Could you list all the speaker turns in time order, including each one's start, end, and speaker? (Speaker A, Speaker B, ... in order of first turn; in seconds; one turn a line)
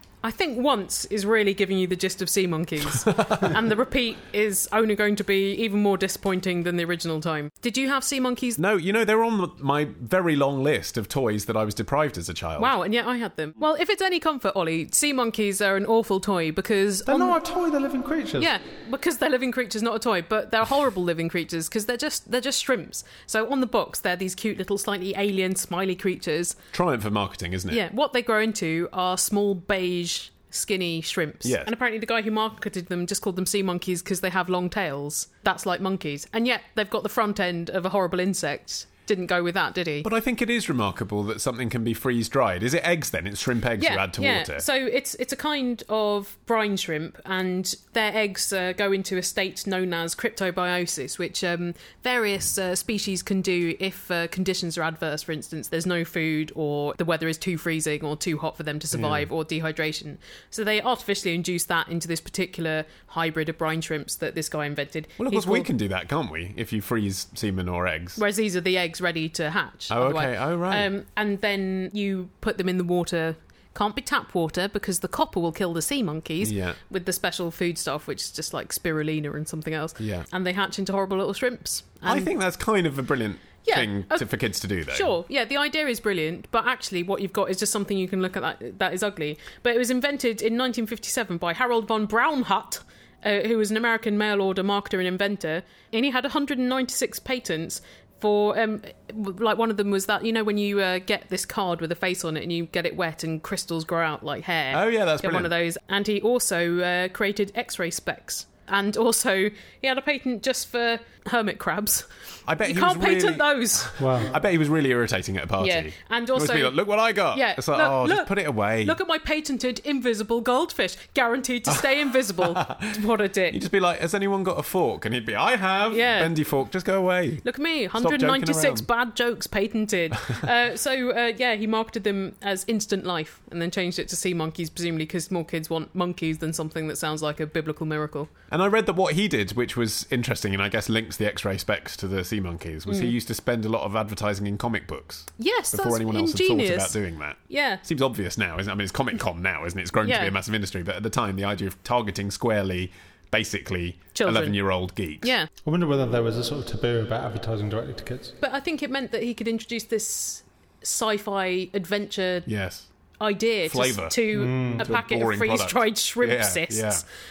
Speaker A: 0.2-8.6
Speaker B: 3.2-3.4
Speaker B: 8.6-12.7
Speaker A: 12.6-17.4
Speaker C: 17.1-18.5
Speaker A: 18.4-26.6
Speaker B: 26.7-27.8
Speaker A: 27.7-40.1
Speaker B: 31.4-31.7
Speaker B: 40.0-44.6
Speaker A: 43.8-65.7
Speaker B: 58.9-59.3
Speaker B: 65.2-68.2
Speaker A: 68.2-82.3
Speaker B: 69.9-70.9
Speaker B: 76.4-76.8
Speaker B: 80.0-80.3
Speaker B: 82.1-85.1
Speaker A: 83.7-84.3
Speaker A: 84.9-112.1
Speaker B: 104.7-105.5
Speaker B: 112.5-119.0
Speaker A: 112.6-113.9
Speaker C: 114.0-114.3
Speaker A: 115.6-116.8
Speaker A: 117.3-118.3
Speaker A: 118.8-123.6
Speaker B: 122.4-123.0
Speaker B: 123.5-127.5
Speaker A: 125.9-126.3
Speaker A: 127.4-138.3
Speaker B: 128.0-128.9
Speaker B: 138.5-155.3
Speaker A: 142.9-143.1
Speaker A: 145.4-147.0
Speaker A: 147.5-147.8
Speaker A: 150.0-150.3
Speaker A: 154.2-154.6
Speaker A: 155.2-155.5
Speaker C: 155.7-158.3
Speaker A: 158.4-162.5
Speaker B: 162.5-162.9
Speaker A: 163.2-167.0
Speaker B: 163.7-167.0
Speaker C: 164.3-164.9